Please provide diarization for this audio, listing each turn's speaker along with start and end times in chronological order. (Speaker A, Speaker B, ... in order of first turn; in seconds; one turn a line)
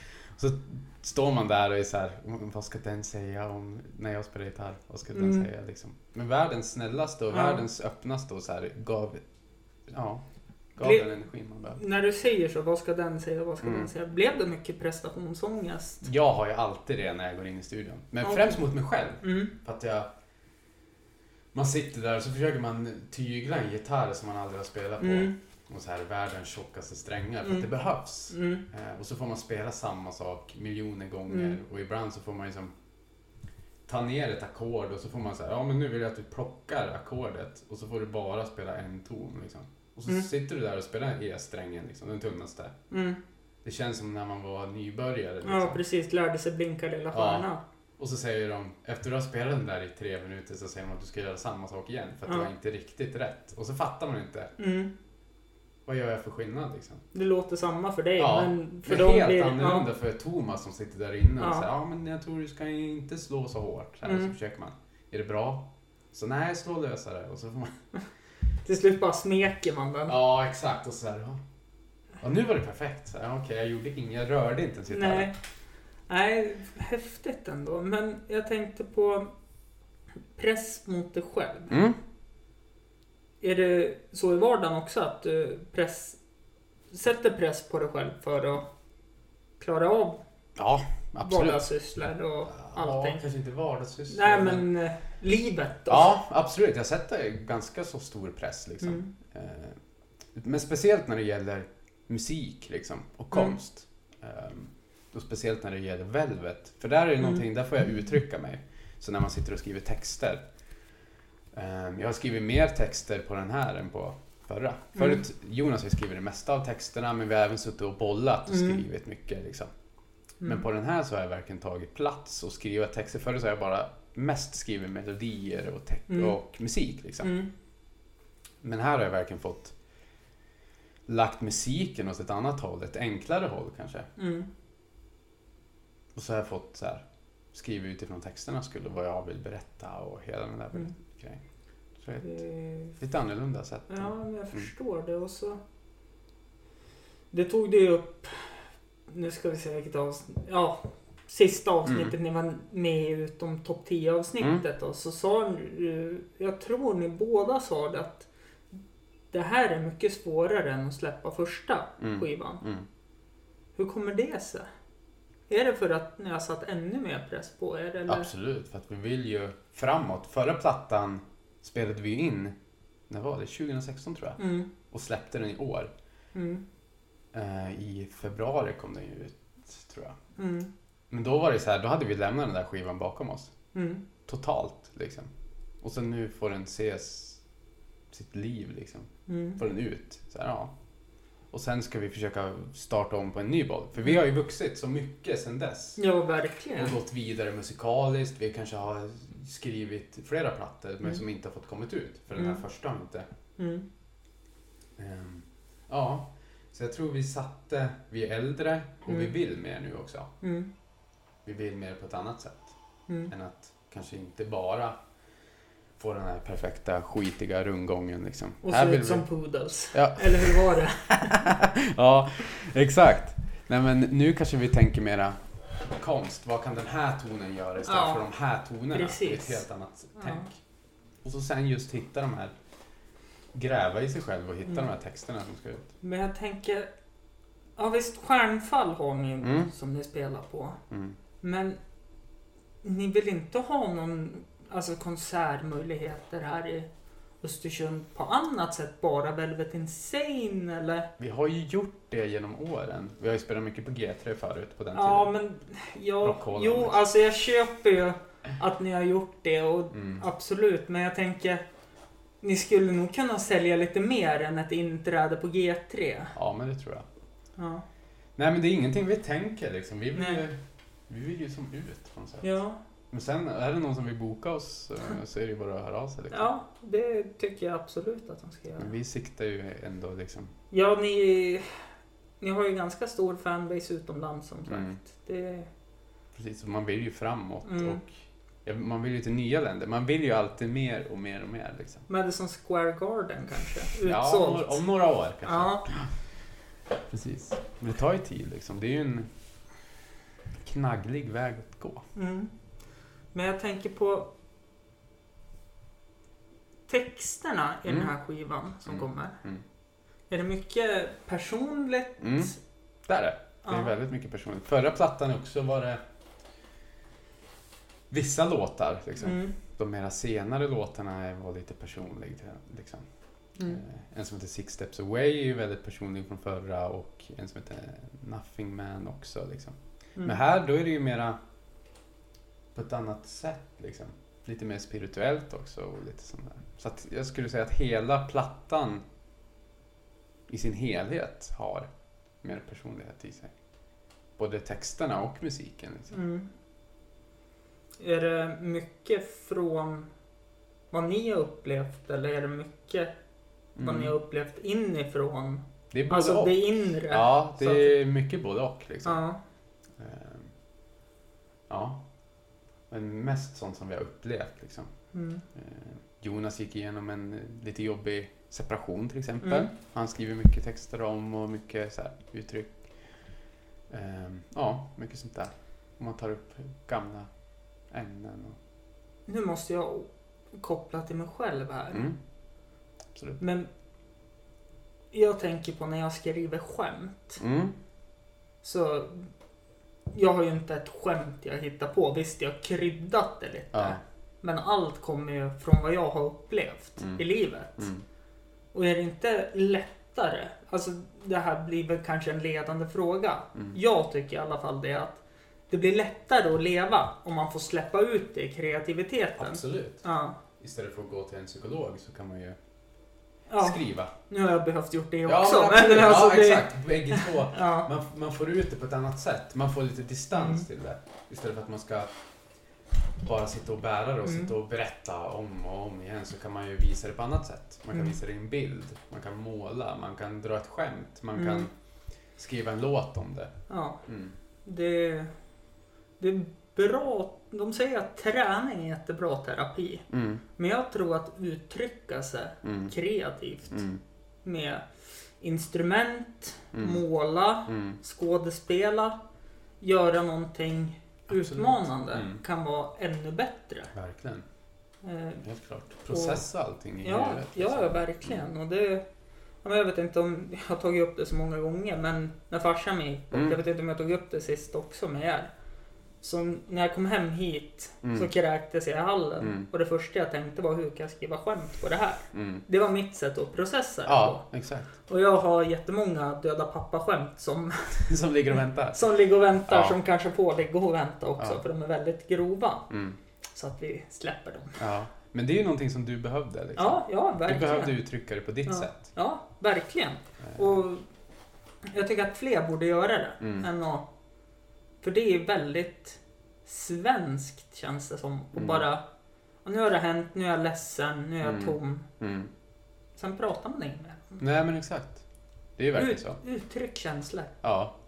Speaker A: 0.3-9.2
Speaker B: 5.1-5.5
Speaker B: 7.3-7.6
Speaker A: 9.9-10.2
Speaker A: 10.8-11.8
Speaker B: 10.8-11.1
Speaker B: 11.7-16.0
Speaker A: 13.6-13.9
Speaker A: 16.0-20.1
Speaker B: 18.2-18.6
Speaker B: 19.2-19.5
Speaker A: 21.5-32.7
Speaker B: 25.0-25.4
Speaker B: 28.3-28.6
Speaker B: 31.3-31.6
Speaker A: 33.9-42.8
Speaker B: 42.9-43.2
Speaker A: 43.6-45.8
Speaker B: 45.4-47.6
Speaker A: 47.1-54.5
Speaker B: 54.6-54.9
Speaker A: 55.9-57.0
Speaker B: 57.1-59.9
Speaker A: 58.2-67.8
Speaker B: 61.4-61.7
Speaker B: 64.0-64.3
Speaker B: 68.6-70.2
Speaker A: 70.1-71.4
Speaker A: 72.2-75.3
Speaker B: 74.9-75.3
Speaker B: 76.1-79.3
Speaker B: 80.4-81.8
Speaker A: 81.7-82.0
Speaker B: 83.4-86.2
Speaker B: 86.9-88.7
Speaker B: 89.6-90.2
Speaker A: 90.5-91.7
Speaker B: 91.2-93.2
Speaker A: 92.5-94.7
Speaker B: 94.1-96.1
Speaker A: 95.9-99.8
Speaker B: 98.8-99.1
Speaker A: 100.3-110.4
Speaker A: 111.5-119.7
Speaker B: 118.5-118.8
Speaker A: 120.4-127.3
Speaker B: 126.1-126.3
Speaker B: 127.2-127.5
Speaker A: 128.6-129.7
Speaker A: 131.1-134.1
Speaker B: 134.2-134.5
Speaker A: 136.1-141.4
Speaker A: 142.0-142.4
Speaker B: 142.2-142.9
Speaker A: 143.0-144.7
Speaker B: 143.9-145.6
Speaker B: 147.3-158.3
Speaker A: 151.8-152.1
Speaker B: 159.3-162.6
Speaker A: 162.0-162.9
Speaker B: 163.8-164.7
Speaker B: 165.5-168.3
Speaker A: 168.1-172.6
Speaker A: 173.1-175.9
Speaker B: 174.4-174.7
Speaker B: 176.3-176.6
Speaker A: 177.3-180.2
Speaker B: 180.4-180.7
Speaker A: 181.1-183.5
Speaker B: 183.7-184.0
Speaker A: 184.2-185.3
Speaker A: 185.8-187.4
Speaker A: 188.1-190.7
Speaker B: 189.3-189.6
Speaker A: 191.5-196.0
Speaker B: 196.0-197.0
Speaker A: 196.8-203.3
Speaker B: 203.6-203.8
Speaker A: 205.0-210.3
Speaker B: 210.4-210.7
Speaker A: 211.4-212.7
Speaker A: 213.3-214.9
Speaker A: 216.0-219.2
Speaker B: 218.6-221.5
Speaker A: 219.9-230.6
Speaker B: 227.8-228.2
Speaker B: 228.9-229.6
Speaker B: 230.2-230.5
Speaker A: 231.2-232.5
Speaker A: 233.5-235.9
Speaker B: 236.0-236.9
Speaker B: 237.8-240.8
Speaker A: 239.4-239.7
Speaker A: 240.9-241.2
Speaker B: 241.4-241.8
Speaker B: 242.8-246.9
Speaker B: 247.4-251.1
Speaker A: 251.2-255.3
Speaker B: 254.9-261.6
Speaker A: 256.2-257.0
Speaker A: 259.9-260.2
Speaker B: 262.4-266.3
Speaker A: 266.3-267.1
Speaker B: 267.6-267.8
Speaker A: 268.4-272.6
Speaker B: 270.2-270.4
Speaker B: 272.4-272.8
Speaker A: 273.1-276.5
Speaker B: 276.3-278.9
Speaker A: 278.8-280.5
Speaker B: 280.7-281.7
Speaker B: 282.4-285.7
Speaker A: 284.7-285.0
Speaker A: 286.3-288.1
Speaker B: 287.6-288.0
Speaker A: 288.6-292.0
Speaker B: 292.1-294.8
Speaker A: 294.0-296.1
Speaker B: 295.4-295.9
Speaker A: 297.1-299.3
Speaker A: 300.6-302.1
Speaker B: 302.1-302.5
Speaker B: 303.3-304.3
Speaker B: 306.9-309.4
Speaker A: 307.9-308.1
Speaker A: 308.8-309.6
Speaker B: 310.3-312.6
Speaker A: 312.2-316.0
Speaker B: 313.7-313.9
Speaker A: 318.1-323.1
Speaker B: 319.2-319.5
Speaker A: 323.6-331.4
Speaker A: 332.7-339.0
Speaker A: 340.5-341.9
Speaker A: 342.4-343.5
Speaker A: 344.4-346.2
Speaker B: 346.1-346.5
Speaker B: 348.0-350.1
Speaker B: 350.9-353.1
Speaker A: 353.8-354.1
Speaker B: 353.8-358.0
Speaker A: 355.9-359.2
Speaker B: 359.0-359.4
Speaker A: 360.0-360.5
Speaker A: 361.7-362.0
Speaker A: 362.9-364.9
Speaker B: 365.1-365.4
Speaker A: 365.5-372.8
Speaker B: 369.4-369.7
Speaker A: 373.9-377.3
Speaker A: 377.9-378.6
Speaker B: 379.3-382.1
Speaker A: 381.9-382.2
Speaker B: 383.4-383.7
Speaker B: 385.1-387.4
Speaker A: 387.4-387.8
Speaker B: 388.6-389.3
Speaker B: 390.1-397.9
Speaker A: 393.7-394.0
Speaker A: 397.8-398.0
Speaker B: 398.7-410.4
Speaker A: 409.4-410.0
Speaker A: 410.6-412.6
Speaker B: 413.5-417.9
Speaker A: 413.6-414.1
Speaker A: 415.2-422.1
Speaker B: 420.3-420.6
Speaker A: 423.2-431.7
Speaker B: 424.2-424.5
Speaker B: 431.4-431.7
Speaker A: 432.4-434.3
Speaker B: 433.7-434.0
Speaker B: 434.6-435.3
Speaker B: 436.2-440.0
Speaker A: 440.1-440.4
Speaker B: 440.6-443.9
Speaker A: 442.6-442.9
Speaker A: 443.7-444.0
Speaker B: 444.4-444.8
Speaker B: 445.4-449.2
Speaker A: 446.7-447.0
Speaker A: 447.7-448.0
Speaker B: 449.8-453.9
Speaker A: 451.3-452.4
Speaker A: 453.9-454.4
Speaker B: 455.0-455.4
Speaker A: 455.4-458.4
Speaker B: 456.1-456.4
Speaker B: 457.0-459.0
Speaker B: 459.6-465.5
Speaker A: 463.3-463.6
Speaker B: 466.2-474.4
Speaker A: 468.0-468.3
Speaker A: 469.4-469.7
Speaker A: 472.3-472.6
Speaker A: 474.1-474.9
Speaker B: 475.1-478.1
Speaker A: 478.0-479.0
Speaker B: 478.9-482.9
Speaker A: 479.7-480.0
Speaker A: 482.9-483.2
Speaker B: 483.5-484.8
Speaker A: 484.8-489.0
Speaker B: 486.8-488.0
Speaker B: 488.7-491.0
Speaker B: 491.8-494.1
Speaker A: 493.4-493.7
Speaker B: 495.0-499.0
Speaker A: 498.6-498.8
Speaker B: 499.6-502.1
Speaker A: 501.4-502.5
Speaker B: 503.2-504.4
Speaker A: 504.4-505.2
Speaker A: 505.8-506.4
Speaker B: 505.9-507.6
Speaker A: 507.6-507.9